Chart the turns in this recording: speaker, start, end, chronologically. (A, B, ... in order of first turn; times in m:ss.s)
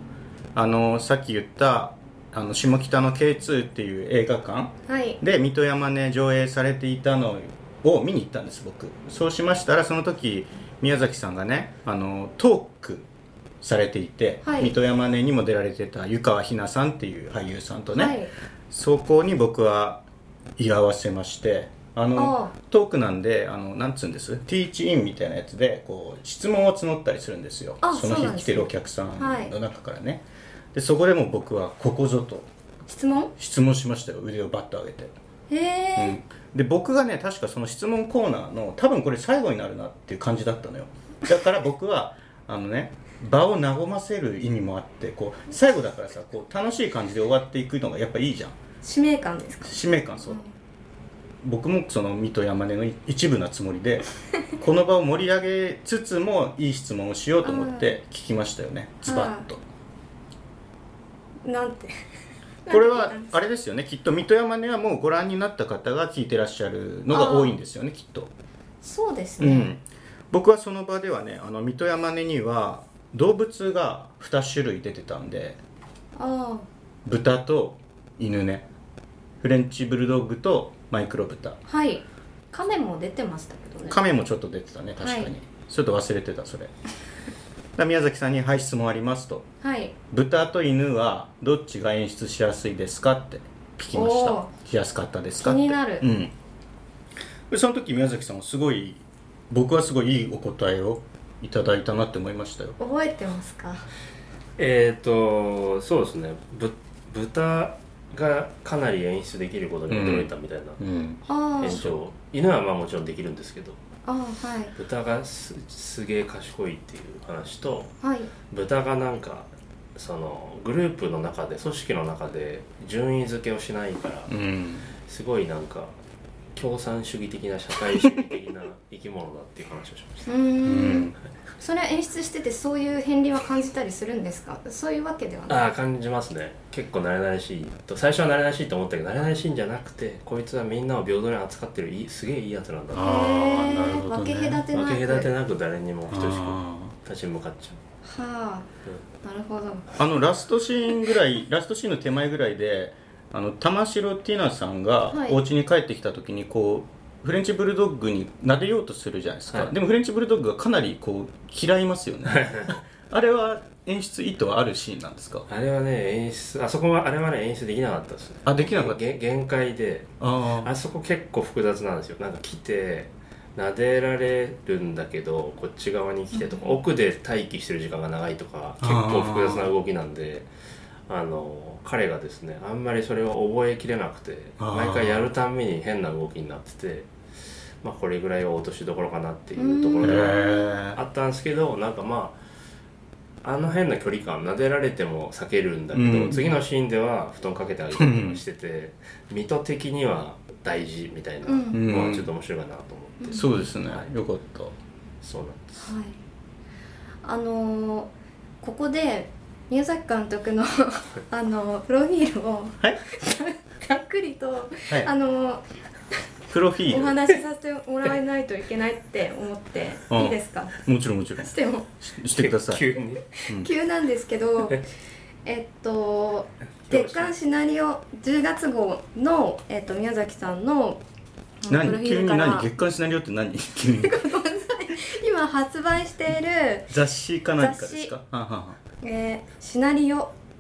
0:00.5-0:13.1 A
0:04.9-0:05.2 B
0:13.6-0:18.2 A
0:14.4-0:14.7 B
0:17.9-0:18.3 B
0:18.7-0:20.0 A
0:20.6-0:32.5 A
0:22.2-0:22.5 B
0:27.8-0:29.5 B
0:32.9-0:33.3 B
0:33.4-0:35.1 A
0:35.5-0:36.2 B
0:36.0-0:48.6 A
0:48.8-0:50.5 B
0:49.6-0:50.4 A
0:51.4-0:54.0 A
0:54.6-0:59.6 A
0:57.4-0:57.9 B
0:59.0-0:59.5 B
1:01.4-1:02.0 B
1:02.6-1:03.4 B
1:02.7-1:08.3 A
1:07.1-1:07.6 B
1:08.8-1:09.7 B
1:09.4-1:15.6 A
1:16.2-1:16.7 B
1:17.0-1:18.7 A
1:19.4-1:21.6 A
1:21.7-1:24.0 B
1:23.9-1:26.7 A
1:25.0-1:25.3 B
1:27.8-1:29.5 A
1:29.6-1:30.0 B
1:30.1-1:36.3 A
1:33.9-1:34.5 B
1:35.4-1:36.1 B
1:37.5-1:42.8 A
1:42.8-1:43.9 B
1:44.6-1:50.8 C
1:49.9-1:51.9 A
1:51.3-1:51.8 B
1:51.6-1:53.8 C
1:54.1-1:54.8 B
1:54.8-1:57.9 C
1:58.0-1:58.3 B
1:58.5-2:04.3 C
2:04.3-2:04.9 A
2:05.1-2:05.9 C
2:06.6-2:10.3 C
2:10.3-2:15.7 B
2:10.6-2:11.2 A
2:15.5-2:23.2 C
2:22.9-2:24.6 A
2:23.0-2:25.3 B
2:24.7-2:27.8 C
2:26.1-2:27.0 A
2:28.0-2:28.7 B
2:29.2-2:29.9 B
2:30.0-2:45.5 A
2:35.1-2:35.4 B
2:42.3-2:42.7 C
2:45.5-3:00.5 C
2:48.5-2:49.0 A
2:50.2-2:50.7 A
2:56.3-2:56.8 B
2:58.8-2:59.7 A
3:01.1-3:07.1 C
3:04.6-3:05.3 A
3:07.8-3:10.4 C
3:09.6-3:10.6 B
3:10.0-3:11.0 A
3:11.0-3:12.4 C
3:13.4-3:24.1 C
3:15.9-3:16.6 A
3:18.0-3:18.4 A
3:21.4-3:21.8 B
3:21.7-3:22.3 A
3:23.2-3:23.7 B
3:23.3-3:24.8 A
3:25.2-3:25.9 C
3:25.8-3:26.2 B
3:27.2-3:35.6 B
3:36.5-3:37.2 A
3:36.9-3:40.8 B
3:40.1-3:42.9 A
3:41.4-3:41.9 B
3:42.3-3:43.2 C
3:43.3-3:44.8 B
3:45.4-3:51.0 B
3:46.9-3:47.3 C
3:51.6-3:52.7 B
3:51.7-3:54.2 A
3:53.9-3:56.9 B
3:56.9-3:58.8 A
3:57.6-3:58.1 B
3:59.0-4:00.3 B